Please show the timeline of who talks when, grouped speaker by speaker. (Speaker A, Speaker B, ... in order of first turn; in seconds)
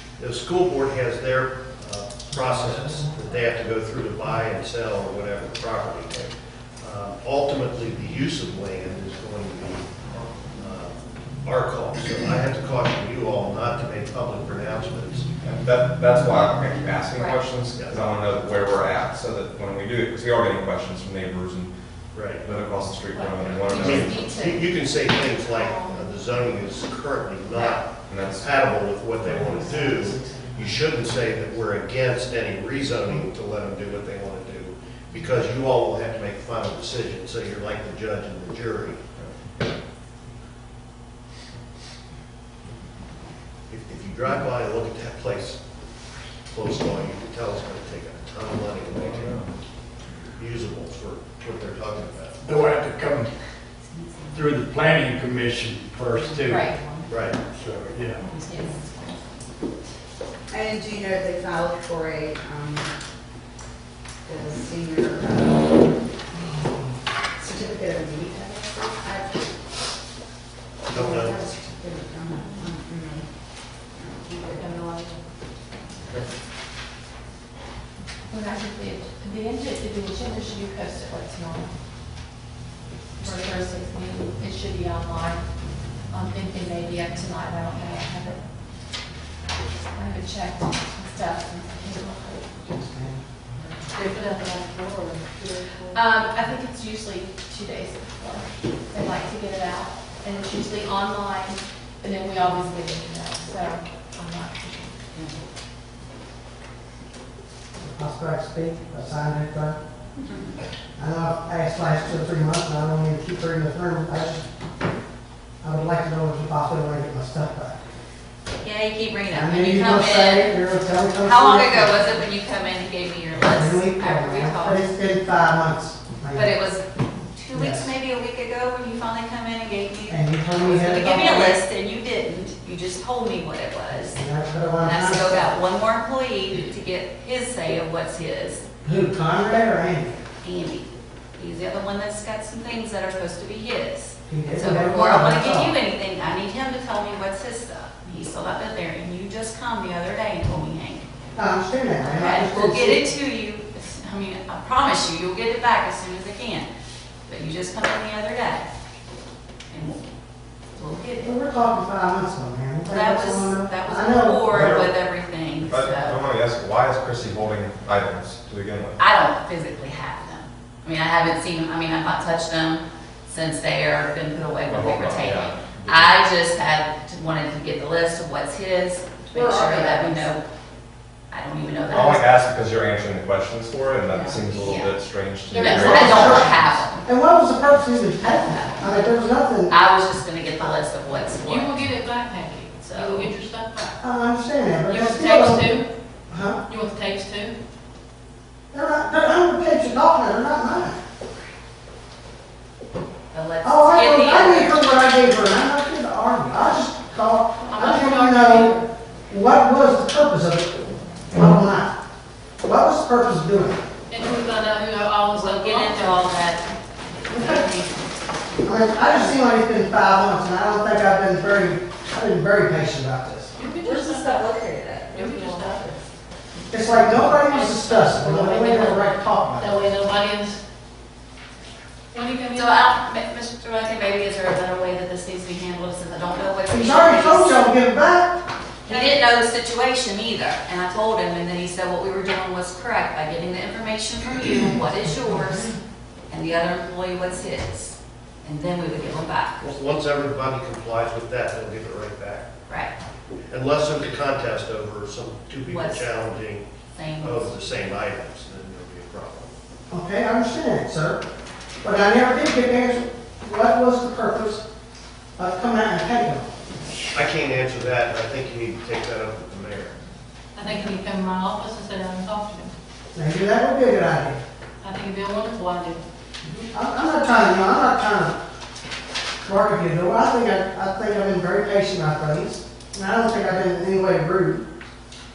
Speaker A: 0.2-15.3, 17.7-18.4, 22.1-22.5, 23.5-39.0, 43.7-45.6, 46.5-49.5, 50.4-52.4, 57.1-57.4, 70.9-71.4, 249.6-252.5, 253.5-256.7, 257.2-259.5, 267.1-270.0
Speaker B: 2.3-3.2, 29.2-31.0, 92.6-93.3, 107.8-109.8, 111.0-114.5, 115.6-117.8, 119.3-122.1, 123.4-126.5, 127.5-127.9, 130.1-131.6, 134.2-135.5, 138.8-140.2, 144.3-145.8, 151.3-153.1, 161.2-164.9, 185.6-189.8, 194.0-196.6, 198.7-201.0, 203.6-212.0, 212.6-213.8, 217.3-217.7, 218.6-223.5, 226.7-229.9, 236.7-238.4, 245.2-245.8, 259.9-261.2, 261.8-264.6, 265.4-266.5, 273.1-274.4, 276.7-278.4, 279.5-284.7
Speaker C: 15.4-24.4, 28.1-28.7, 49.0-49.5, 164.5-164.9, 165.6-169.0, 174.7-176.2, 181.9-186.9
Speaker D: 17.1-17.4, 110.2-110.5, 118.6-120.6, 121.2-124.8, 126.3-134.2, 134.8-138.6, 140.4-151.1, 152.0-156.7, 157.3-158.7, 159.7-160.1, 160.8-161.3, 162.9-166.2, 169.0-180.4, 181.3-182.3, 184.5-185.0, 185.5-187.0, 188.2-188.9, 189.7-191.8, 192.8-193.3, 203.3-204.9, 215.3-218.2, 232.5-237.6, 238.9-245.7, 246.3-249.6, 252.7-252.9, 255.7-256.2, 256.9-257.6
Speaker E: 23.1-26.2, 56.5-56.8, 58.4-58.8, 78.2-81.7, 83.2-88.4, 89.9-92.5, 95.9-105.0
Speaker F: 52.4-53.3, 54.3-56.6, 57.6-58.2
Speaker G: 56.1-56.9, 60.5-62.9, 64.2-66.0, 67.3-69.5, 70.9-74.7, 179.3-180.2, 184.1-184.7, 223.8-226.0
Speaker H: 72.3-72.7, 74.3-75.3, 93.9-96.0, 185.5-185.9, 191.4-194.0, 194.8-195.9, 196.6-197.6, 207.6-208.9, 214.1-216.5, 223.6-226.0, 227.1-230.6, 232.1-232.8, 238.9-239.2, 270.6-272.7, 274.8-276.0